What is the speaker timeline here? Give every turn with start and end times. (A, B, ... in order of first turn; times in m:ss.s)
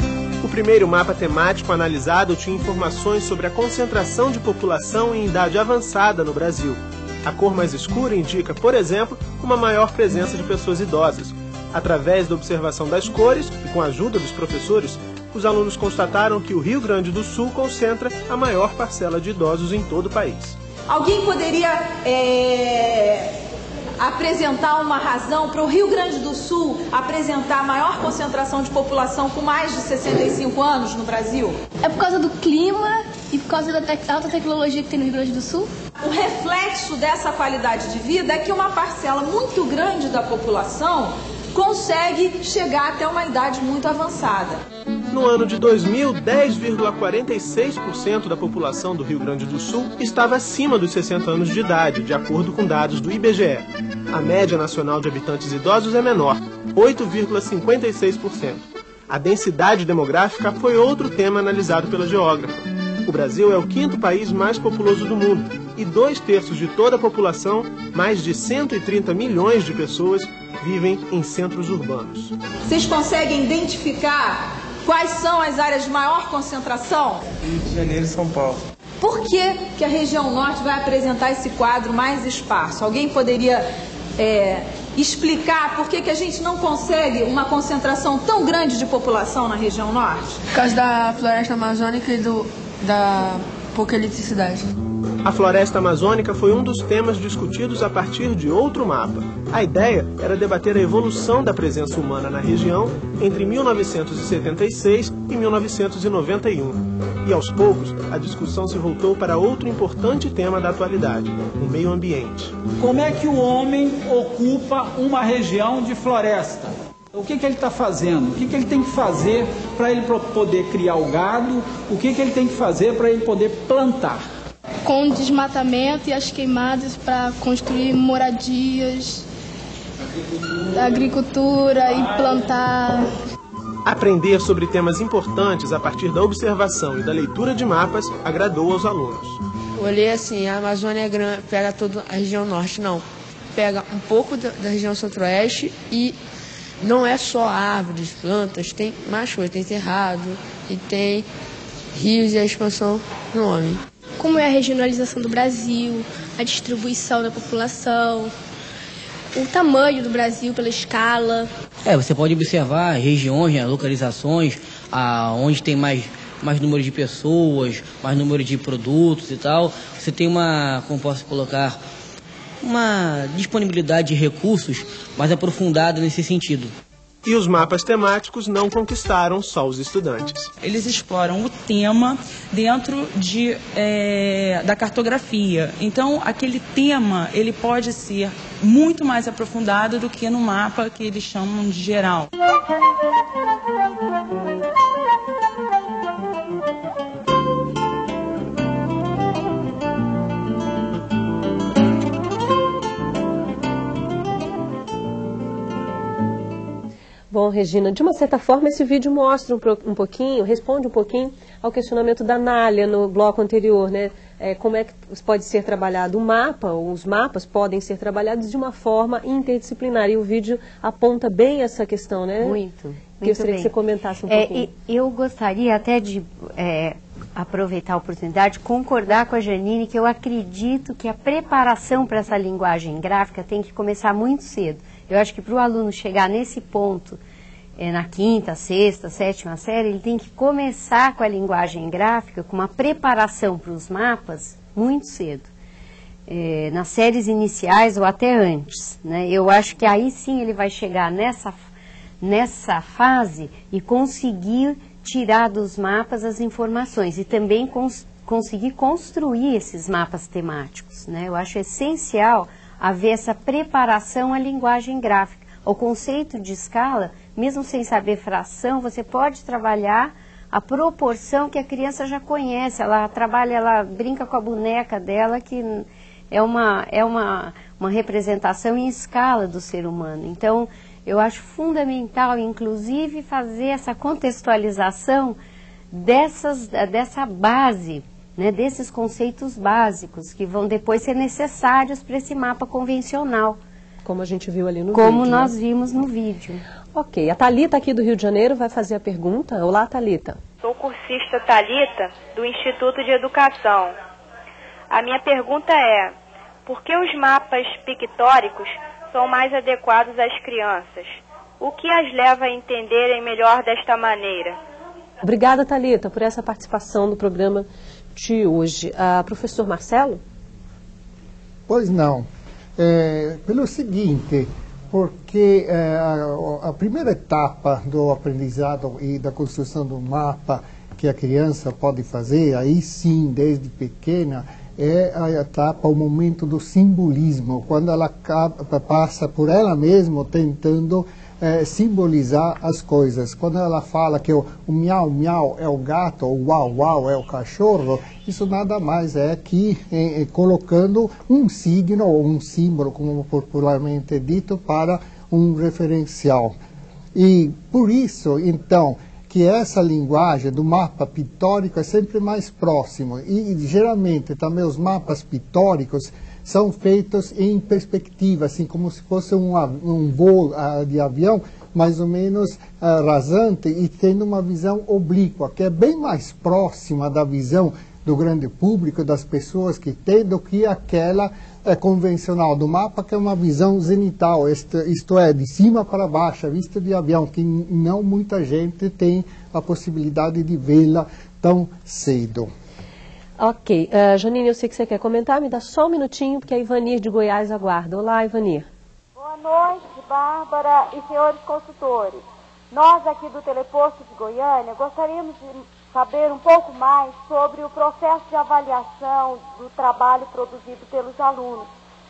0:00.4-0:20.6 A
0:20.9-0:23.4 B
0:24.0-0:31.6 B
0:31.8-0:35.7 C
0:36.0-0:44.6 B
0:45.1-1:12.3 A
1:12.7-1:17.2 B
1:17.7-1:18.6 D
1:19.0-1:23.7 B
1:24.2-1:30.4 B
1:30.5-1:34.6 D
1:35.2-1:52.6 A
1:52.8-2:04.2 E
2:04.8-2:09.3 C
2:10.7-2:13.1 C
2:13.9-2:19.4 A
2:19.8-2:23.0 D
2:23.6-2:26.2 D
2:26.8-2:31.3 D
2:31.9-2:33.8 D
2:34.2-2:38.3 C
2:39.3-2:41.5 C
2:41.8-2:51.8 F
2:52.6-2:56.7 F
2:57.2-3:00.5 A
3:00.6-3:12.3 G
3:27.3-3:42.6 H
3:42.4-3:43.7 I
3:43.2-3:44.7 H
3:44.3-3:57.2 I
3:57.8-4:05.5 I
4:06.3-4:11.6 I
4:12.2-4:45.4 I
4:45.9-4:53.6 I
4:54.0-4:55.5 H
4:54.9-4:56.6 I
4:57.0-5:00.4 H
5:00.6-5:04.0 J
5:04.9-5:06.1 J
5:06.7-5:14.6 J
5:15.2-5:20.2 H
5:21.7-5:22.3 K
5:22.8-5:56.6 K
5:57.1-6:32.5 K
6:33.4-6:38.7 H
6:39.2-6:51.7 L